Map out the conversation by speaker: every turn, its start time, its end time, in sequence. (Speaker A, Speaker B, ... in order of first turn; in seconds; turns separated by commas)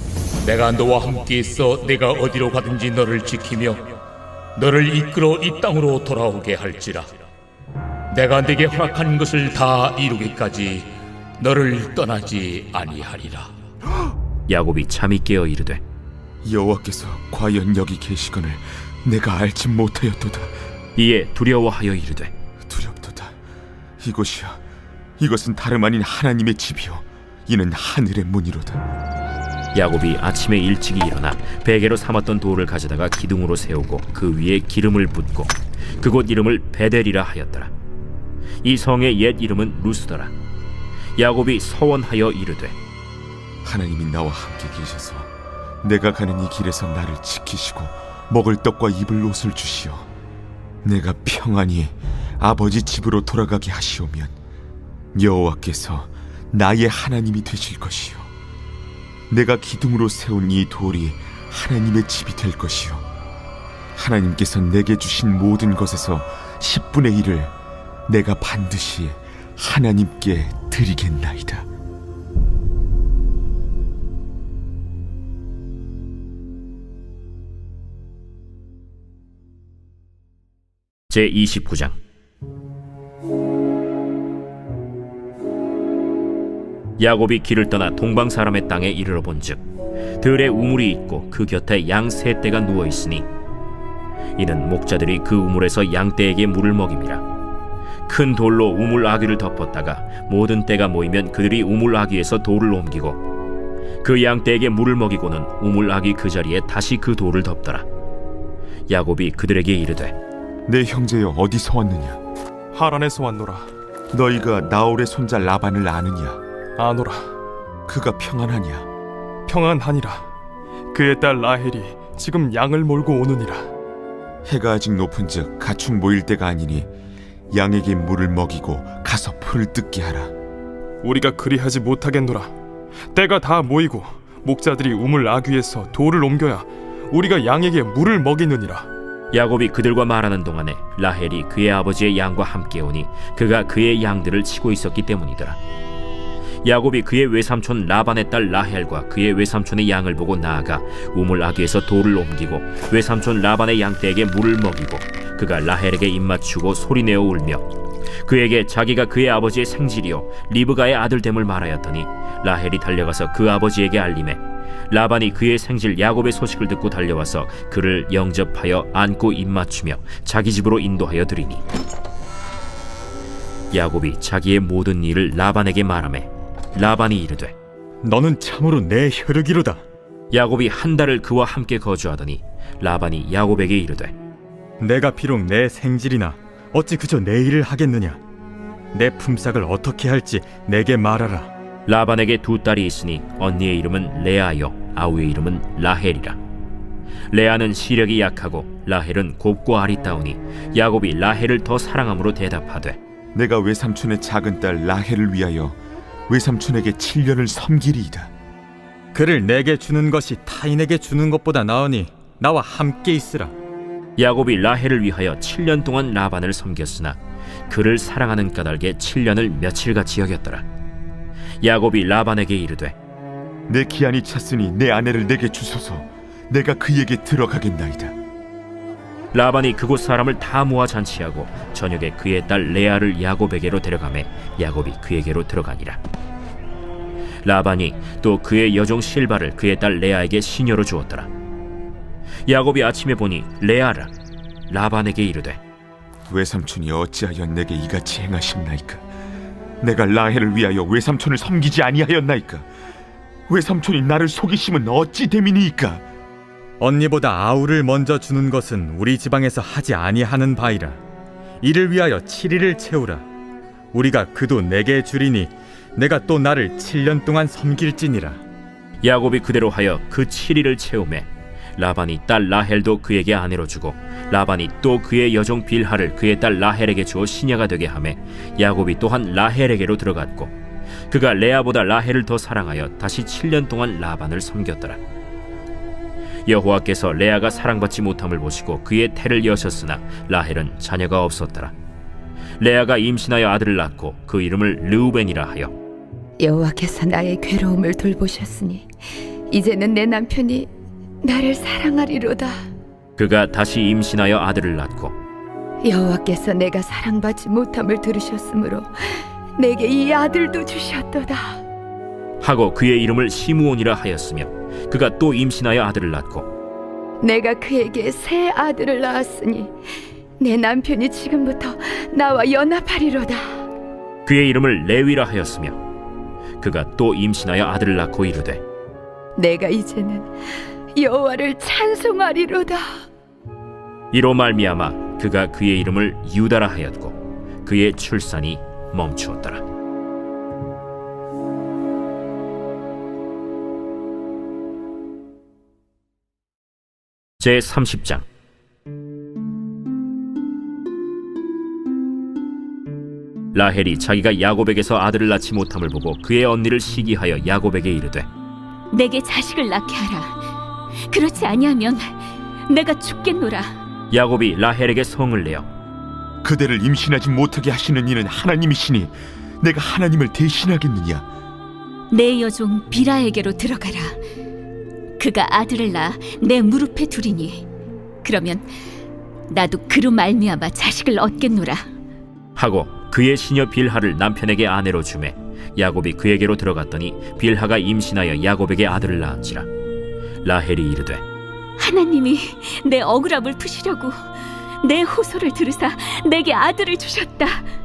Speaker A: 0.4-3.9, Speaker A: 4.5-7.1, Speaker A: 8.1-13.5, Speaker B: 14.5-15.8, Speaker C: 16.4-20.5, Speaker B: 20.9-22.3, Speaker C: 22.6-23.4, Speaker C: 24.0-24.6, Speaker C: 25.2-28.8, Speaker B: 29.7-37.7, Speaker B: 38.6-40.3, Speaker B: 41.2-42.8, Speaker C: 43.6-45.3, Speaker C: 45.8-50.1, Speaker C: 50.8-54.3, Speaker C: 55.1-58.3, Speaker C: 59.3-63.0, Speaker C: 63.9-67.5, Speaker C: 68.1-71.7, Speaker B: 81.1-82.0, Speaker B: 87.0-89.6, Speaker B: 90.2-93.2, Speaker B: 94.4-97.2, Speaker B: 98.1-103.2, Speaker B: 104.0-107.8, Speaker B: 108.9-110.1, Speaker C: 110.7-112.2, Speaker D: 112.7-113.7, Speaker C: 114.1-116.4, Speaker D: 116.8-117.3, Speaker C: 117.9-118.9, Speaker D: 119.5-120.3, Speaker D: 120.9-123.7, Speaker C: 124.5-126.9, Speaker C: 127.5-130.3, Speaker D: 131.0-132.5, Speaker D: 133.1-138.9, Speaker B: 139.3-145.6, Speaker B: 146.6-157.6, Speaker B: 158.2-171.6, Speaker B: 173.7-177.5, Speaker E: 178.0-179.8, Speaker B: 180.3-184.1, Speaker E: 184.8-188.2, Speaker E: 188.9-191.5, Speaker B: 191.9-196.4, Speaker B: 197.3-203.0, Speaker C: 203.3-208.3, Speaker E: 209.1-213.5, Speaker B: 214.2-220.6, Speaker B: 221.6-222.9, Speaker C: 223.7-228.1, Speaker B: 229.3-236.0, Speaker B: 237.4-241.3, Speaker B: 242.4-244.1, Speaker B: 244.7-245.6, Speaker C: 246.3-249.0, Speaker C: 249.8-252.7, Speaker C: 253.5-256.0, Speaker E: 256.8-261.0, Speaker E: 261.6-263.2, Speaker E: 263.9-268.4, Speaker B: 269.0-280.5, Speaker B: 281.1-285.0, Speaker B: 286.4-291.7, Speaker B: 292.6-295.7, Speaker F: 296.4-298.9, Speaker F: 299.5-300.7, Speaker F: 301.2-302.6, Speaker B: 303.2-305.1, Speaker F: 305.8-311.6, Speaker B: 312.4-316.5, Speaker F: 317.2-319.7, Speaker F: 320.4-323.6, Speaker B: 324.2-325.8, Speaker B: 326.6-328.6, Speaker F: 329.4-330.3, Speaker F: 330.9-333.0, Speaker B: 334.1-339.6, Speaker B: 347.4-348.2, Speaker B: 353.5-358.2, Speaker G: 358.9-360.4, Speaker G: 361.1-363.7, Speaker B: 364.1-365.7, Speaker C: 366.4-371.2, Speaker G: 372.1-374.2, Speaker G: 375.2-377.6, Speaker G: 378.2-378.6, Speaker G: 379.5-381.8, Speaker B: 382.6-389.7, Speaker B: 390.4-391.2, Speaker G: 391.8-394.1, Speaker G: 394.8-397.6